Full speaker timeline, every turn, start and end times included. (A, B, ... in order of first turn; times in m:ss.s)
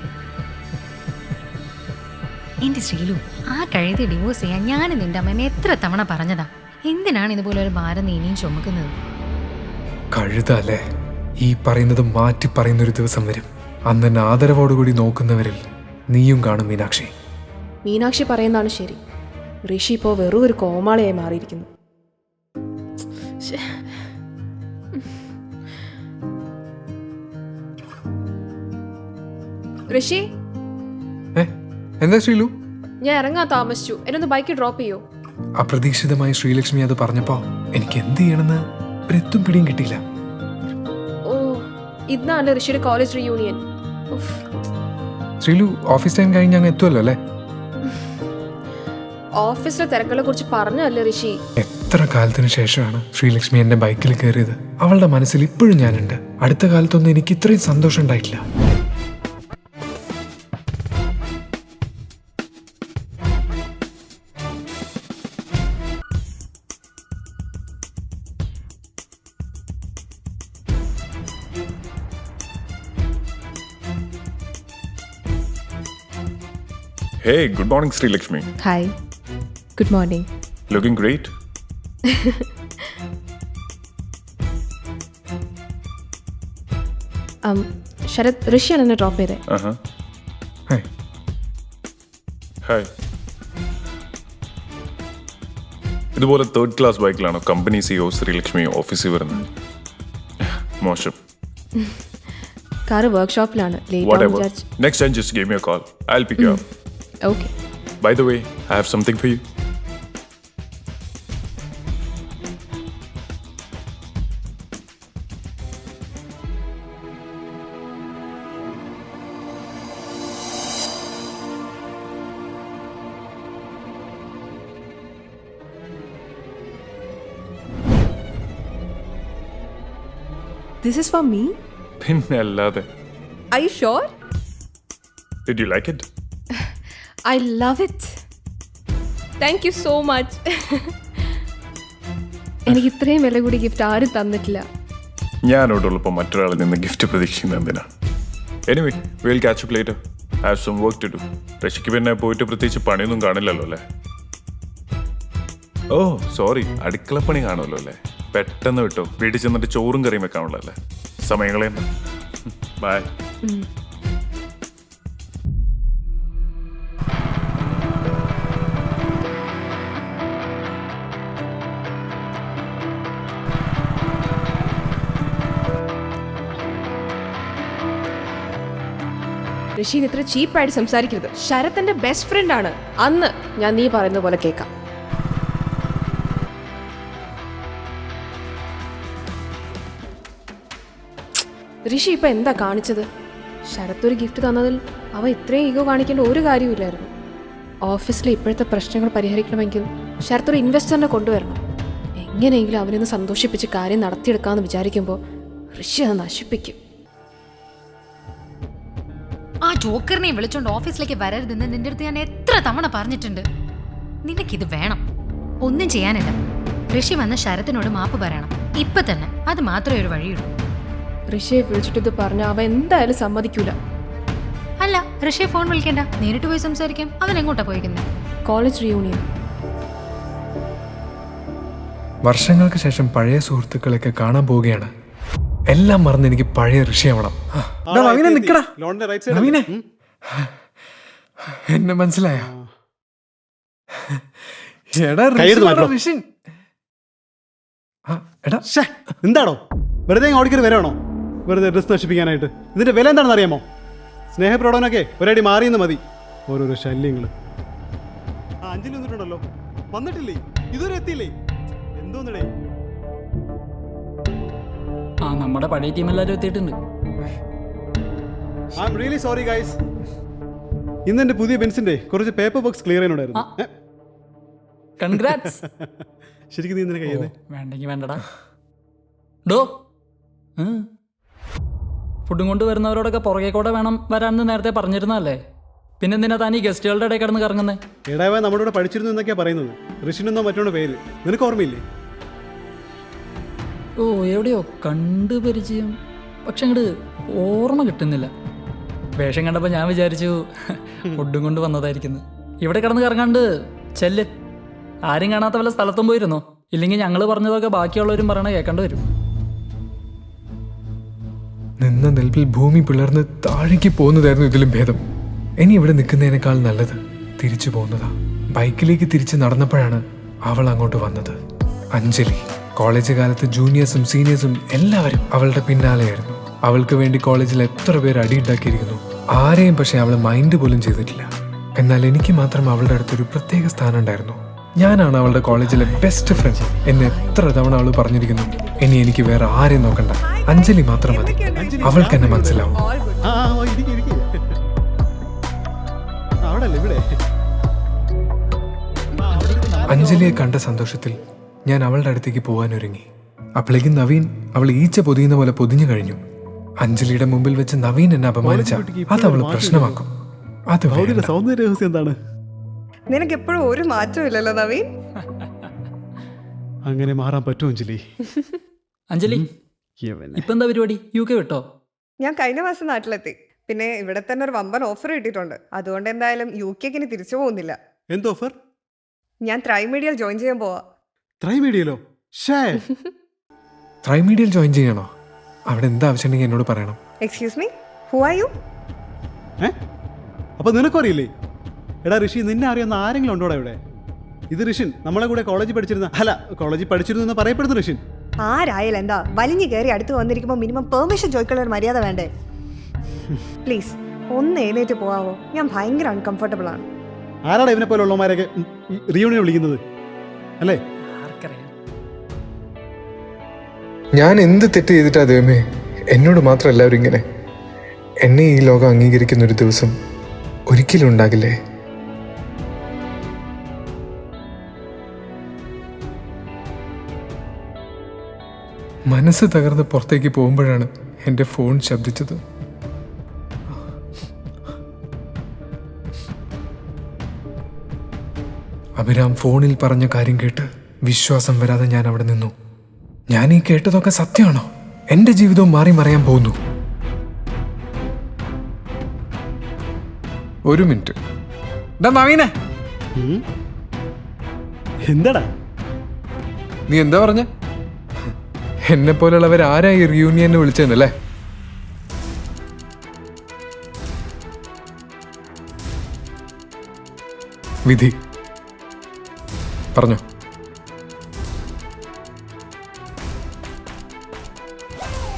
0:02.6-0:08.9 A
0:10.1-0:10.8 B
0:11.4-0:17.1 B
0:17.8-0:19.0 C
0:19.6-0:21.7 C
0:29.9-0:30.2 C
0:31.4-0:32.5 B
0:33.0-0:35.0 C
0:35.6-0:40.0 B
0:41.3-0:41.6 C
0:42.1-0:43.6 C
0:44.1-0:44.4 C
0:45.4-0:47.2 B
0:49.4-0:51.3 C
0:51.6-0:58.4 B
1:17.2-1:18.5 D
1:18.6-1:18.9 C
1:19.8-1:20.3 C
1:20.7-1:21.3 D
1:27.5-1:29.4 C
1:29.5-1:29.8 D
1:36.2-1:39.4 D
1:40.4-1:41.2 D
1:42.9-1:44.6 C
1:44.0-1:46.6 D
1:47.2-1:47.5 C
1:48.0-1:49.4 D
2:10.8-2:11.5 C
2:12.0-2:12.9 D
2:13.5-2:14.1 C
2:15.5-2:16.1 D
2:17.3-2:18.1 C
2:19.4-2:20.9 C
2:22.7-2:24.6 C
2:25.4-2:27.9 D
2:28.7-2:33.8 D
2:35.9-2:41.9 D
2:42.5-2:43.1 D
2:59.8-3:04.7 C
3:11.9-3:13.0 C
3:13.7-3:17.1 C
3:17.9-3:21.6 C
3:22.2-3:25.2 C
3:25.8-3:26.8 C
3:29.6-3:33.5 A
3:34.2-3:35.0 A
3:35.6-3:36.4 A
3:36.9-3:40.5 A
3:41.3-3:43.8 C
3:44.8-3:48.0 A
3:48.4-3:49.2 C
3:52.3-3:54.9 B
3:55.7-3:58.7 B
3:57.9-3:59.8 E
3:59.3-3:59.7 B
4:01.6-4:02.5 B
4:02.4-4:02.7 E
4:04.9-4:06.2 B
4:05.4-4:06.0 E
4:08.1-4:08.7 B
4:08.7-4:11.0 E
4:11.5-4:13.6 E
4:14.4-4:17.3 E
4:18.6-4:21.3 E
4:22.0-4:22.5 E
4:25.2-4:26.8 F
4:28.8-4:29.8 E
4:31.1-4:33.7 E
4:35.0-4:35.6 F
4:35.1-4:35.6 E
4:36.5-4:37.3 E
4:37.1-4:38.2 F
4:39.5-4:39.8 F
4:40.6-4:40.9 F
4:42.3-4:45.4 F
4:46.0-4:47.8 F
4:48.1-4:51.8 E
4:54.0-4:55.9 F
4:56.5-4:56.9 F
4:57.4-4:58.3 F
4:59.2-5:00.5 F
5:01.1-5:03.5 F
5:04.0-5:04.3 F
5:05.1-5:09.0 F
5:11.8-5:15.0 B
5:15.6-5:21.4 B
5:21.9-5:42.8 B
5:36.2-5:36.8 E
5:40.2-5:42.1 G
5:41.5-5:44.6 E
5:42.8-5:43.2 G
5:46.5-5:47.0 E
5:49.2-5:50.4 E
5:49.9-5:53.1 B
5:53.6-5:56.2 B
5:56.8-6:00.1 B
5:58.4-6:00.0 E
6:00.7-6:01.3 B
6:00.9-6:02.2 E
6:03.1-6:04.9 G
6:06.9-6:08.0 E
6:09.1-6:09.4 F
6:10.0-6:10.5 E
6:10.4-6:11.6 F
6:12.2-6:17.8 G
6:18.1-6:18.5 E
6:19.4-6:20.8 G
6:21.4-6:22.8 E
6:24.0-6:25.1 B
6:25.7-6:27.0 B
6:27.2-6:28.5 G
6:30.6-6:31.3 E
6:32.0-6:33.8 E
6:34.5-6:38.0 E
6:38.4-6:42.3 G
6:43.6-6:46.9 G
6:47.5-6:49.8 E
6:51.1-6:51.7 F
6:54.2-6:57.2 B
6:58.2-6:59.9 B
7:00.7-7:01.6 B
7:09.1-7:12.4 B
7:19.0-7:22.5 B
7:23.3-7:26.6 B
7:30.7-7:31.2 B
7:32.0-7:32.5 B
7:33.2-7:33.4 E
7:35.1-7:35.5 E
7:36.9-7:37.5 B
7:38.9-7:41.1 B
7:50.0-7:50.2 B